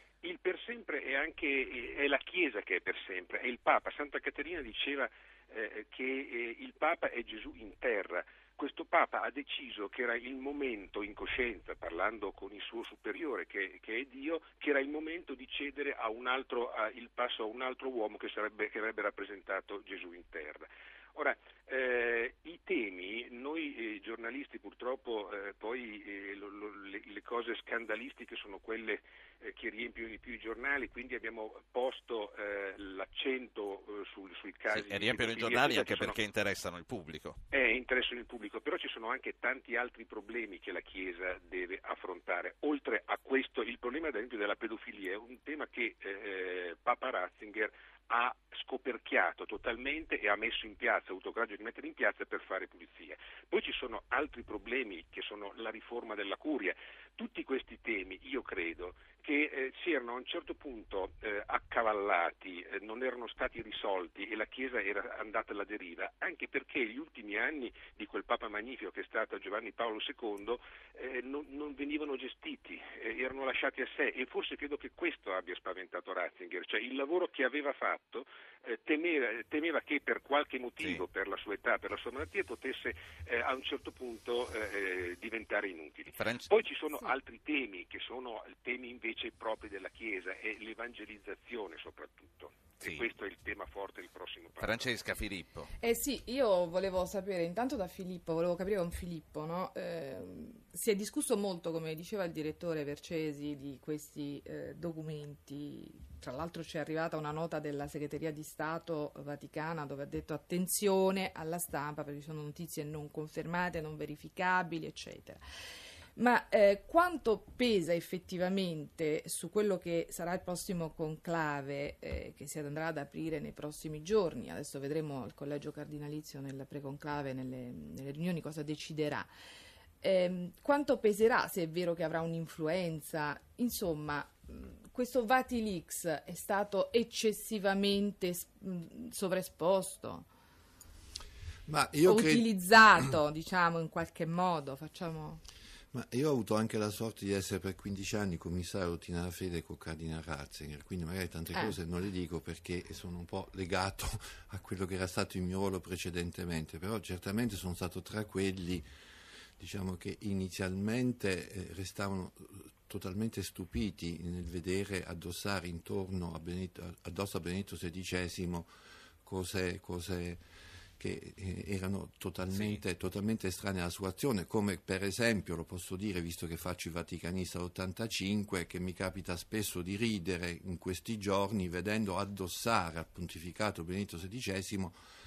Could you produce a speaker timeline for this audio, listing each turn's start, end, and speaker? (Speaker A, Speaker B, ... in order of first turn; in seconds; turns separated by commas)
Speaker A: 0.2-36.2, Speaker B: 34.7-37.4, Speaker A: 37.5-94.9, Speaker B: 86.2-86.6, Speaker B: 92.8-93.1, Speaker B: 94.6-95.7, Speaker C: 95.8-115.4, Speaker C: 116.2-129.3, Speaker C: 130.0-140.3, Speaker D: 141.7-142.5, Speaker C: 142.0-145.4, Speaker D: 145.9-158.9, Speaker D: 159.6-168.7, Speaker D: 169.2-170.4, Speaker D: 171.0-184.9, Speaker B: 172.5-172.8